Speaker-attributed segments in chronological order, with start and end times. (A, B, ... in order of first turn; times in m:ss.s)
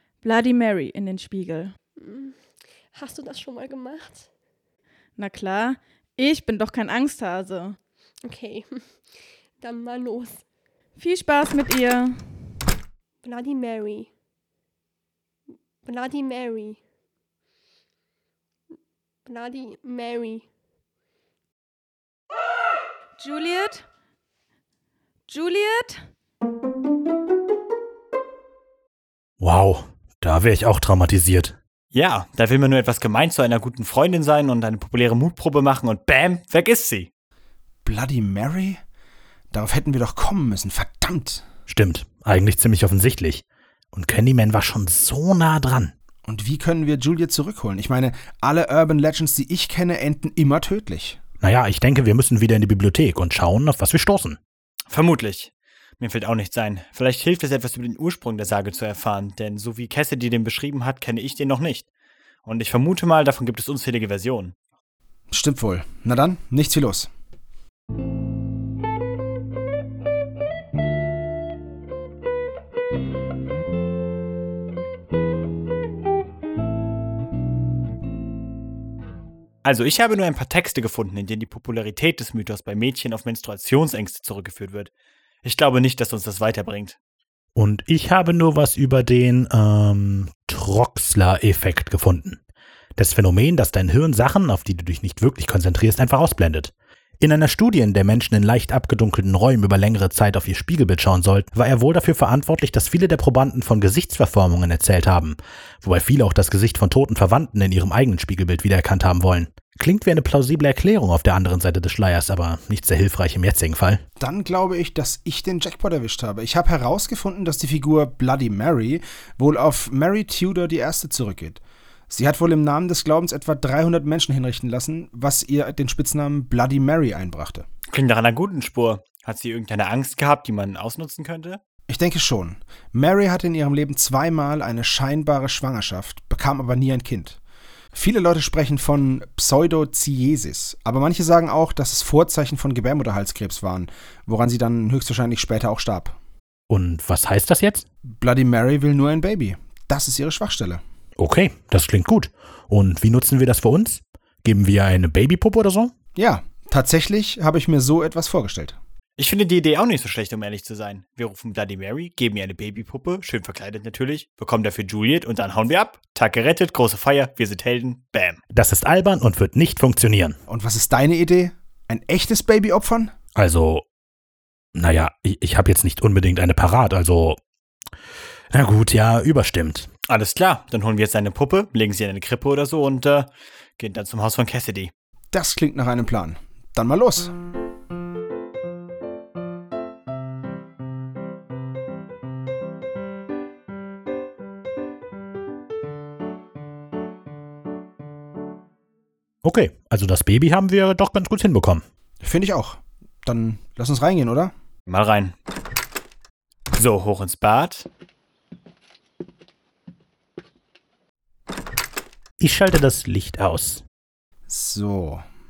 0:00.2-0:01.7 A
0:02.0-0:02.4 B
0:02.9-0:04.3 B
0:05.2-0:07.8 A
0:08.2-0:10.4 B
0:11.0-0:12.2 A
0:13.2-0:14.1 B
0:15.8-0:16.8 B
0:19.3-0:20.4 B
0:23.2-0:23.8 A
0:25.3-0:26.0 A
0:29.4-0:31.6 C
0:31.9-0:37.1 D
0:37.8-0:38.8 E
0:39.5-0:41.4 E
0:41.7-0:45.9 C
0:46.3-0:51.2 E
0:51.4-0:54.4 C
0:54.9-1:01.9 D
1:02.5-1:04.5 D
1:05.3-1:07.1 E
1:19.6-1:24.9 D
1:25.4-1:27.0 D
1:27.6-1:32.4 C
1:33.0-1:54.0 C
1:54.2-2:07.7 E
2:07.9-2:11.6 D
2:11.9-2:17.4 E
2:17.9-2:26.2 E
2:26.7-2:27.8 C
2:28.1-2:30.8 E
2:31.2-2:35.9 C
2:36.2-2:38.8 E
2:39.2-2:48.4 D
2:48.5-2:50.4 C
2:50.5-2:53.1 E
2:53.4-2:53.8 C
2:54.8-2:57.4 C
2:58.5-2:59.9 C
3:00.1-3:04.9 D
3:05.3-3:07.3 E
3:19.4-3:21.8 C
3:22.2-3:24.5 E
3:24.9-3:25.3 D
3:26.8-3:27.9 D
3:32.4-3:33.8 C
3:34.5-3:35.2 E